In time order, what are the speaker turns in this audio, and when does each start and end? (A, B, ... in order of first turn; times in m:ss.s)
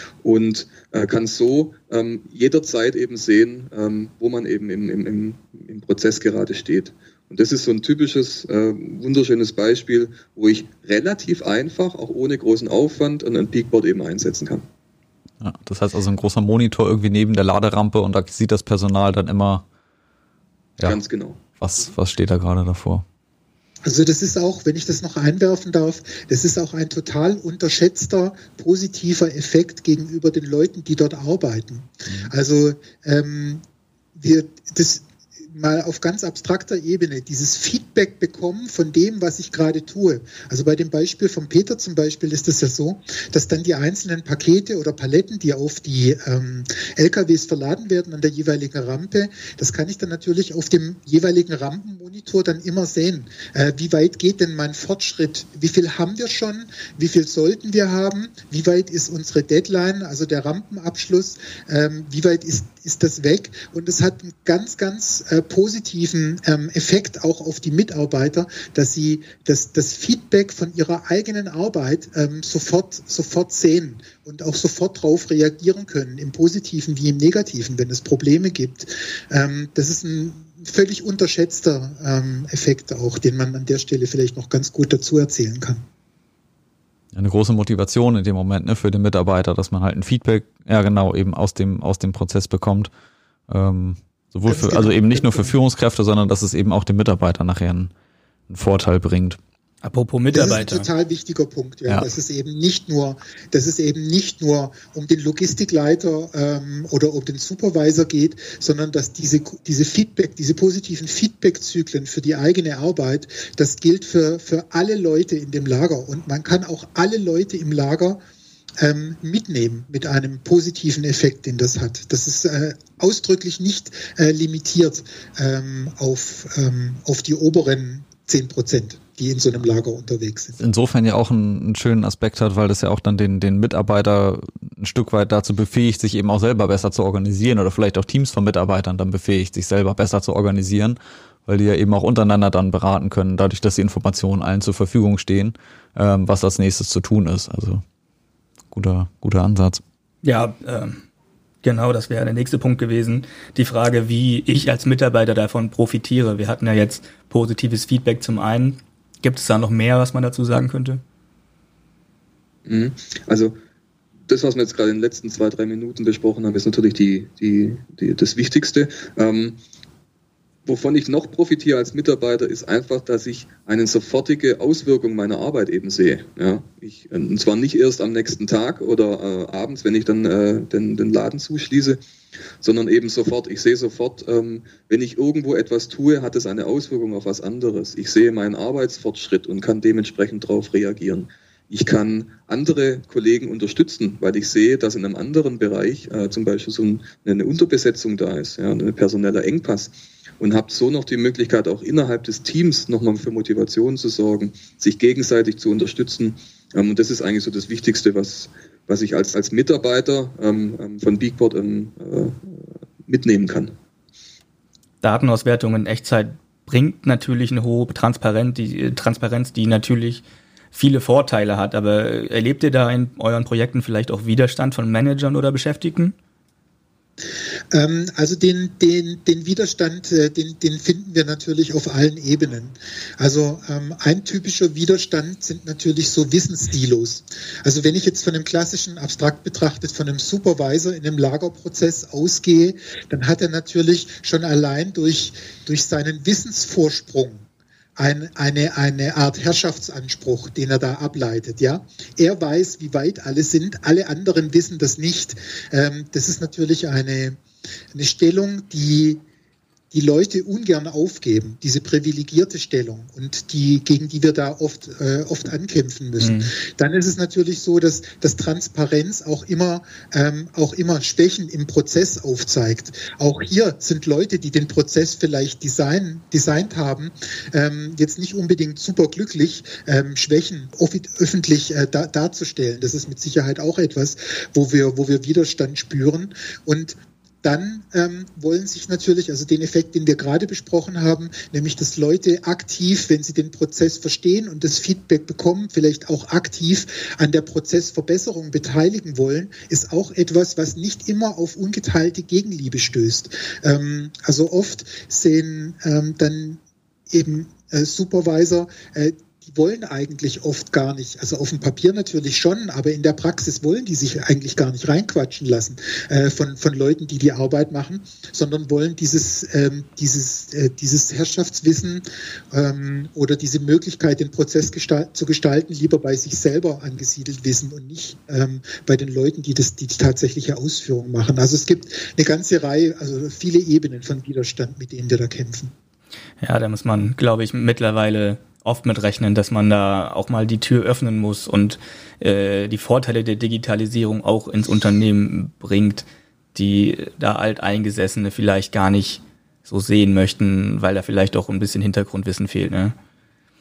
0:00.2-0:14.7 A
0:15.4-0:19.6 B
0:20.8-0:21.6 A
0:21.6-0:23.0 B
0:23.8-0:33.6 C
0:34.2-1:25.8 C
1:27.1-1:32.9 B
1:33.5-1:37.9 B
1:34.5-1:35.5 C
1:38.5-1:39.4 B
1:39.8-1:40.9 D
1:40.3-1:58.2 C
1:58.8-2:10.6 C
2:10.6-2:27.8 B
2:28.7-2:29.8 B
2:30.2-2:31.0 D
2:31.6-2:41.0 D
2:42.7-2:43.6 A
2:44.3-2:49.6 A
2:50.7-3:02.0 A
3:02.6-3:33.7 A
3:35.0-3:46.2 D
3:47.7-4:07.4 C
4:08.0-4:17.4 C
4:17.9-4:19.2 C
4:19.9-5:06.6 C
4:26.2-4:26.5 D
5:07.1-5:35.7 C
5:36.4-5:53.0 D